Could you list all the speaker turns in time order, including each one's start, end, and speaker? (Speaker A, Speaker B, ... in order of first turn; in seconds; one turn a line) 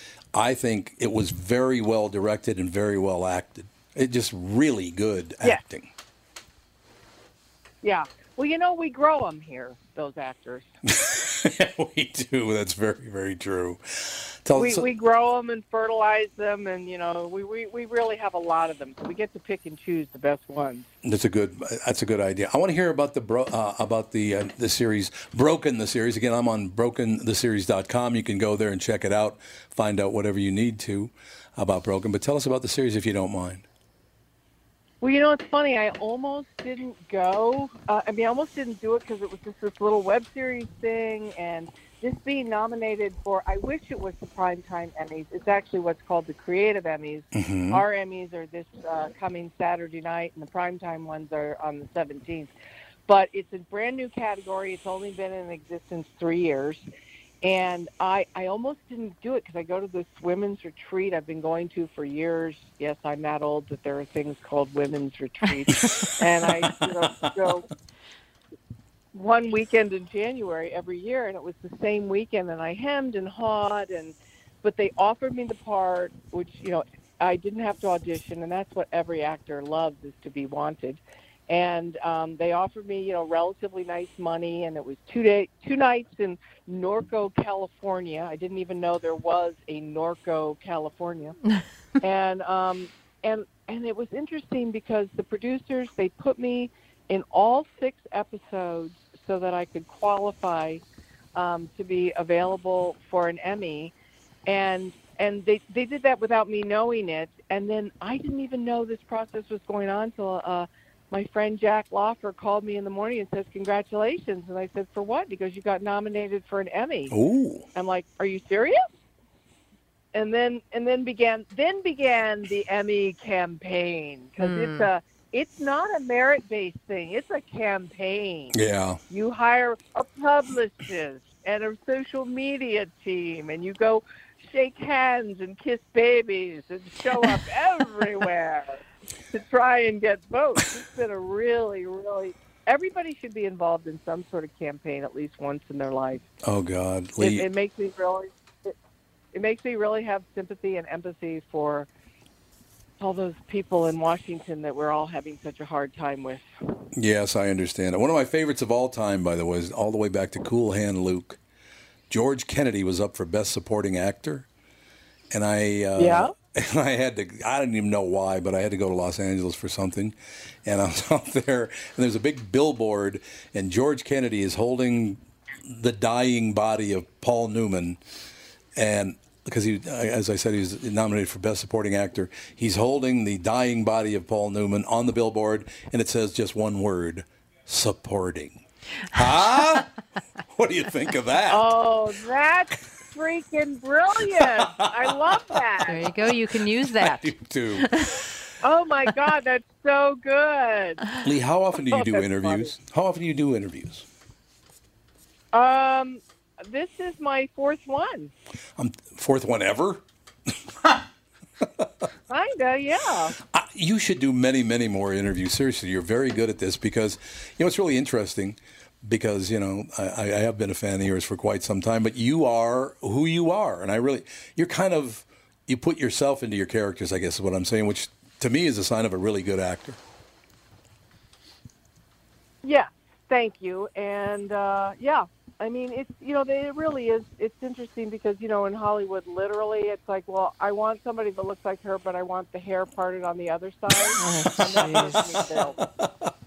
Speaker A: 0.3-5.9
Speaker B: 7.8-10.7
Speaker A: 10.9-14.9
Speaker B: 14.6-20.9
Speaker A: 21.0-33.6
Speaker B: 35.0-52.5
Speaker A: 47.3-47.8
Speaker B: 53.1-56.8
Speaker B: 57.4-67.7
Speaker A: 65.7-66.1
Speaker A: 66.6-67.4
Speaker B: 69.1-91.4
Speaker B: 92.0-100.8
Speaker B: 101.3-103.9
Speaker B: 104.5-117.2
Speaker A: 117.1-117.7
Speaker B: 117.8-118.8
Speaker B: 120.1-128.6
Speaker C: 124.4-124.9
Speaker A: 128.5-129.0
Speaker B: 129.1-138.8
Speaker B: 139.3-146.2
Speaker A: 146.4-147.5
Speaker B: 147.2-148.8
Speaker B: 149.3-151.9
Speaker B: 153.0-156.5
Speaker A: 156.9-161.4
Speaker A: 162.1-164.5
Speaker A: 165.3-178.0
Speaker B: 166.0-166.3
Speaker A: 178.8-189.9
Speaker A: 190.5-191.7
Speaker B: 191.5-196.1
Speaker A: 194.3-195.2
Speaker C: 195.9-198.2
Speaker A: 197.0-197.9
Speaker B: 198.6-201.0
Speaker A: 201.2-204.1
Speaker B: 201.9-202.7
Speaker B: 205.5-208.3
Speaker A: 208.8-210.0
Speaker B: 212.3-213.3
Speaker A: 213.5-230.0
Speaker B: 232.6-245.8
Speaker C: 244.2-245.2
Speaker A: 244.4-246.3